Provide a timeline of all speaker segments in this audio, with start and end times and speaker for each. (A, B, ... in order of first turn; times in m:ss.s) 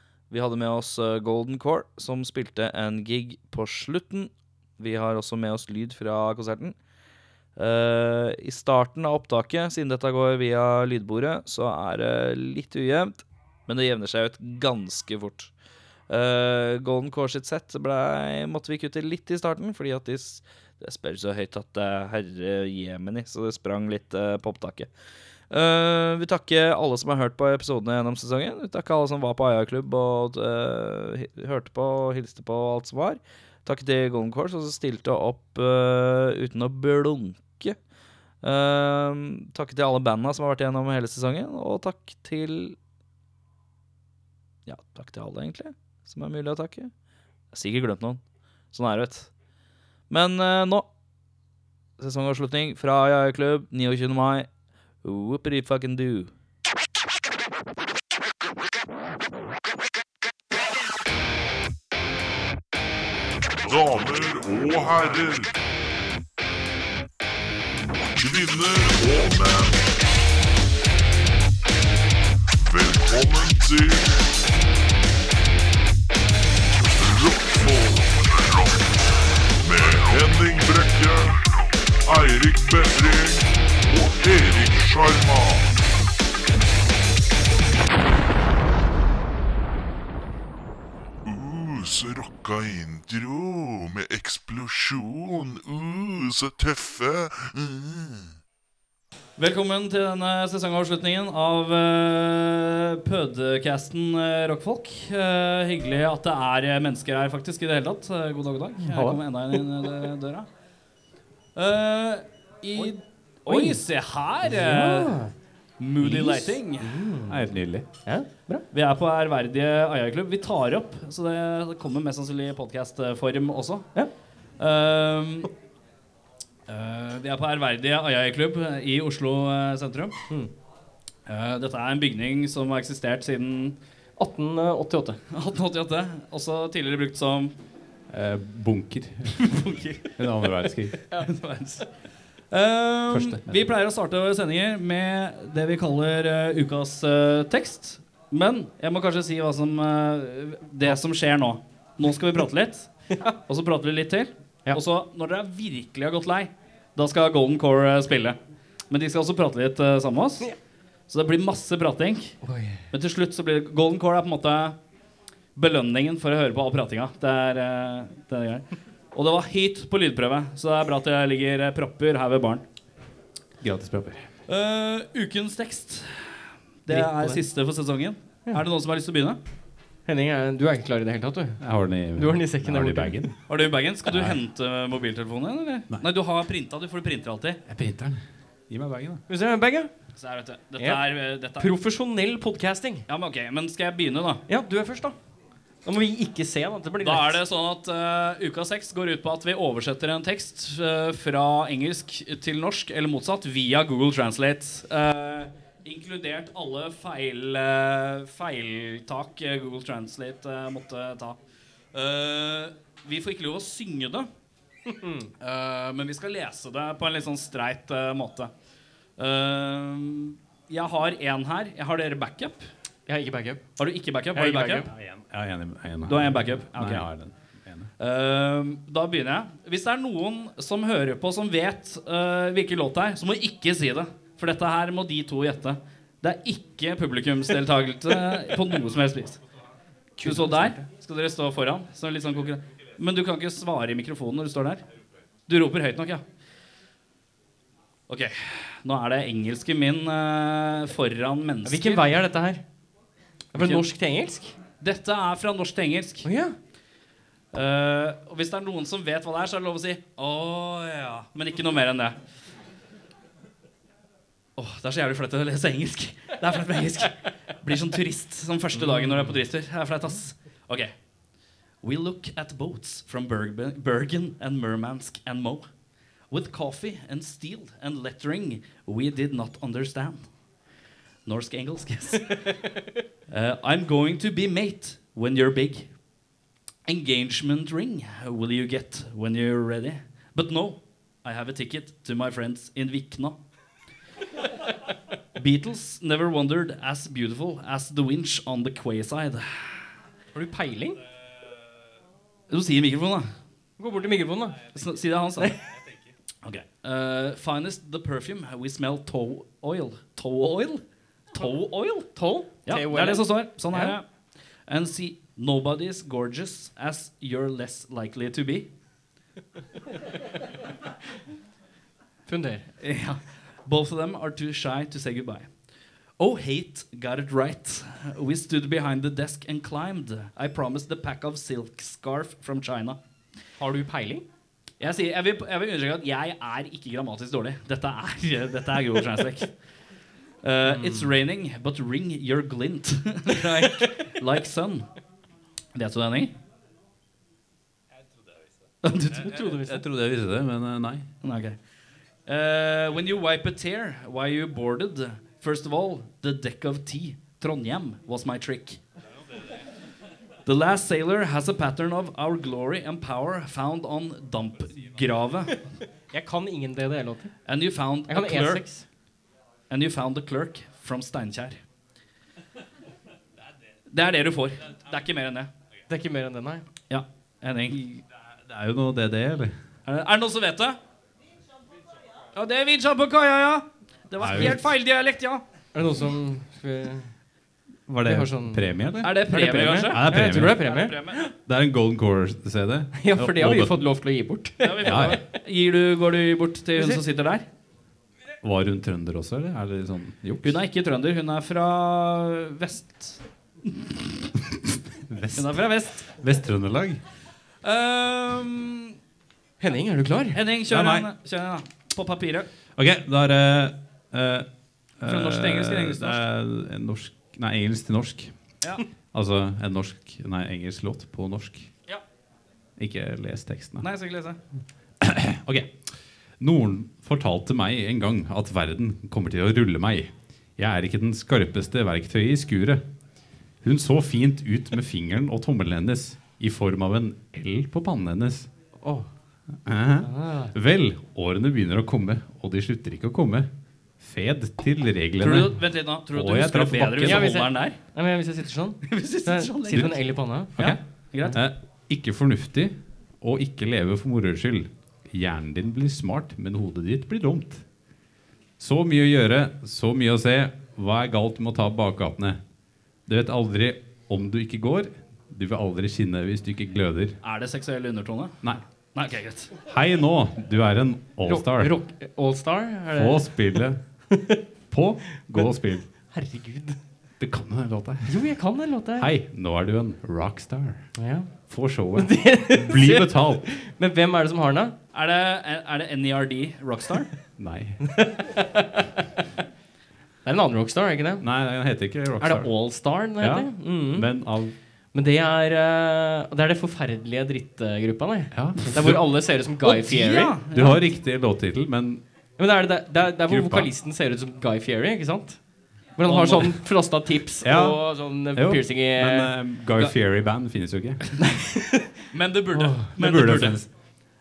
0:00.3-0:06.8 A
0:07.6-0:15.5 A
0:16.1-0:24.9 A
0:25.4-0:37.8 A
0:38.4-0:42.8 A
0:44.7-0:45.4 B
0:45.3-0:46.9 A
0:47.5-0:47.8 B
0:47.8-0:48.2 A
0:48.7-0:49.3 B
0:50.1-0:50.9 A
0:52.0-0:56.3 A
1:03.6-1:05.5 C
1:08.0-1:09.9 C
1:12.6-1:14.3 C
1:16.8-1:19.0 C
1:19.6-1:25.8 C
1:31.2-1:38.3 C
1:39.4-1:50.5 B
1:48.8-1:49.2 D
1:51.5-1:56.9 B
1:52.6-1:55.3 E
1:56.0-1:58.6 E
1:57.3-1:57.8 D
1:58.7-2:05.5 B
2:06.7-2:10.3 B
2:11.2-2:13.8 B
2:14.2-2:15.2 E
2:15.3-2:17.5 B
2:18.1-2:21.2 D
2:19.5-2:20.2 B
2:21.2-2:44.8 B
2:23.1-2:23.7 D
2:42.4-2:42.8 E
2:45.5-2:52.6 B
2:53.6-2:54.3 D
2:54.5-2:59.4 B
2:56.9-2:57.4 D
3:00.0-3:03.3 E
3:01.6-3:04.4 D
3:03.5-3:07.6 B
3:07.6-3:09.2 D
3:09.3-3:10.2 E
3:10.2-3:11.7 B
3:10.8-3:13.0 E
3:13.1-3:14.4 B
3:14.5-3:17.4 E
3:17.0-3:31.4 B
3:31.9-3:34.3 B
3:34.8-3:35.3 E
3:35.4-3:38.5 B
3:39.2-3:42.7 B
3:43.1-3:43.7 E
3:43.8-3:44.8 B
3:44.3-3:44.9 E
3:44.8-3:47.9 D
3:46.1-3:47.1 B
3:48.0-3:59.4 B
4:00.2-4:00.8 E
4:00.2-4:04.8 B
4:05.5-4:06.2 B
4:08.1-4:12.1 B
4:11.6-4:12.6 E
4:13.5-4:14.6 E
4:13.5-4:13.9 B
4:14.8-4:16.3 B
4:16.2-4:16.6 E
4:17.5-4:22.2 B
4:24.6-4:40.5 B
4:28.7-4:29.4 E
4:41.2-4:42.6 B
4:43.3-4:46.0 B
4:46.8-4:53.4 B
4:55.4-5:00.0 B
5:00.3-5:01.0 E
5:02.5-5:03.3 B
5:03.8-5:05.6 E
5:04.7-5:05.6 B
5:06.4-5:18.7 B
5:12.1-5:14.0 E
5:22.2-5:22.7 E
5:22.8-5:33.5 B
5:33.6-5:34.2 E
5:34.8-5:39.8 B
5:40.4-5:45.0 B
5:40.7-5:41.1 E
5:45.7-5:46.3 B
5:48.8-5:49.4 B
5:49.2-5:49.8 E
5:49.3-5:51.1 D
5:51.2-5:51.7 B
5:52.2-5:58.9 B
6:00.4-6:05.6 B
6:06.1-6:07.5 E
6:07.4-6:09.0 B
6:08.0-6:08.9 E
6:09.7-6:11.7 B
6:13.9-6:15.5 B
6:15.9-6:16.6 E
6:16.9-6:18.0 B
6:18.4-6:19.6 D
6:19.8-6:20.8 B
6:22.3-6:25.4 B
6:24.2-6:24.7 D
6:25.7-6:27.2 E
6:27.9-6:33.8 D
6:28.0-6:31.3 E
6:29.0-6:31.3 B
6:32.9-6:35.2 E
6:34.6-6:37.5 B
6:34.8-6:35.2 D
6:36.8-6:37.0 E
6:38.4-6:40.6 D
6:40.4-6:43.4 B
6:45.0-6:47.0 D
6:45.3-6:46.1 B
6:47.6-6:48.9 B
6:49.6-6:50.4 E
6:50.3-6:52.5 B
6:50.6-6:51.1 D
6:52.8-7:01.7 D
6:55.0-6:56.2 B
7:02.8-7:03.9 D
7:03.8-7:04.4 B
7:05.0-7:12.8 D
7:13.5-7:18.5 D
7:18.8-7:19.1 E
7:19.6-7:27.4 D
7:20.0-7:20.5 E
7:25.2-7:28.1 B
7:27.0-7:31.4 E
7:28.9-7:31.4 B
7:29.7-7:37.7 D
7:38.6-7:42.4 D
7:43.0-7:47.2 D
7:47.2-7:49.5 B
7:49.6-7:51.8 D
7:51.2-7:54.4 E
7:52.9-7:55.9 D
7:56.1-7:56.8 E
7:57.2-8:03.5 D
7:58.0-7:59.1 E
8:01.0-8:04.7 E
8:04.9-8:07.2 B
8:07.4-8:08.2 D
8:10.2-8:20.4 E
8:11.2-8:14.6 D
8:18.3-8:19.1 D
8:19.6-8:20.8 B
8:20.5-8:22.0 D
8:22.4-8:29.4 E
8:23.2-8:23.7 D
8:26.0-8:26.6 B
8:27.4-8:31.3 D
8:31.2-8:31.8 E
8:32.1-8:33.8 B
8:32.5-8:32.9 E
8:32.8-8:33.7 D